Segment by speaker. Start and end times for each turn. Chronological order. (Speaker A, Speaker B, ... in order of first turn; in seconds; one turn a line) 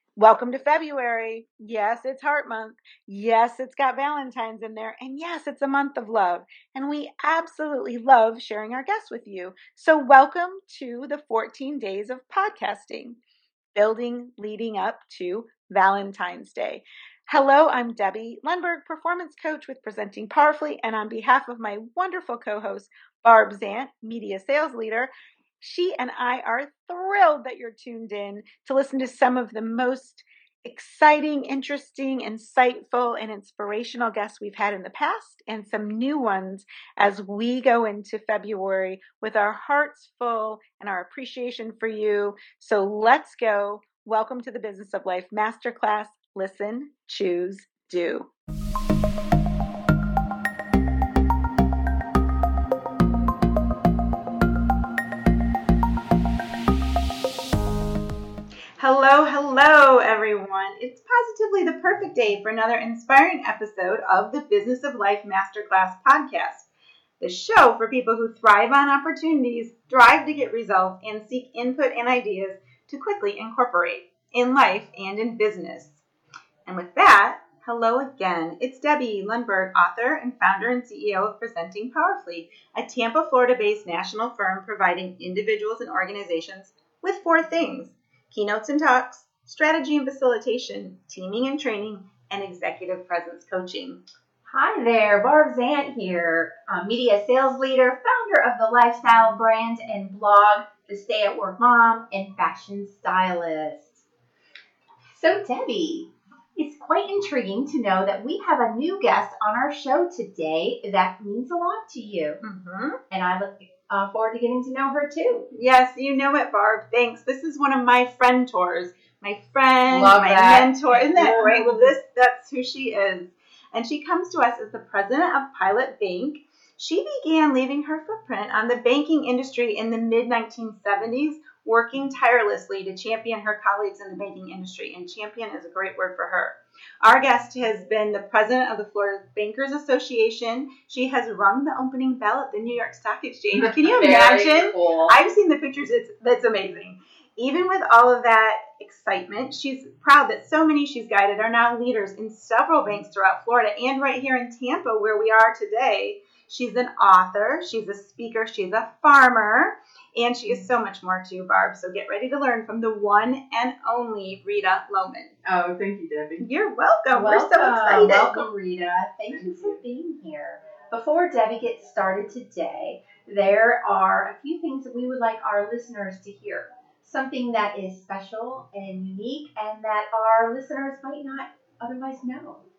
Speaker A: 0.2-13.2
Speaker A: 13.8-48.3
Speaker A: 58.8-66.7
Speaker A: 67.2-76.0
Speaker A: 76.7-94.0
Speaker B: 94.5-104.0
Speaker B: 105.1-112.4
Speaker A: 112.4-113.0
Speaker B: 113.1-115.5
Speaker A: 115.5-165.3
Speaker B: 119.9-120.7
Speaker C: 120.9-121.9
Speaker B: 143.9-145.2
Speaker C: 165.4-166.5
Speaker A: 166.4-168.5
Speaker B: 167.1-182.6
Speaker C: 169.3-169.8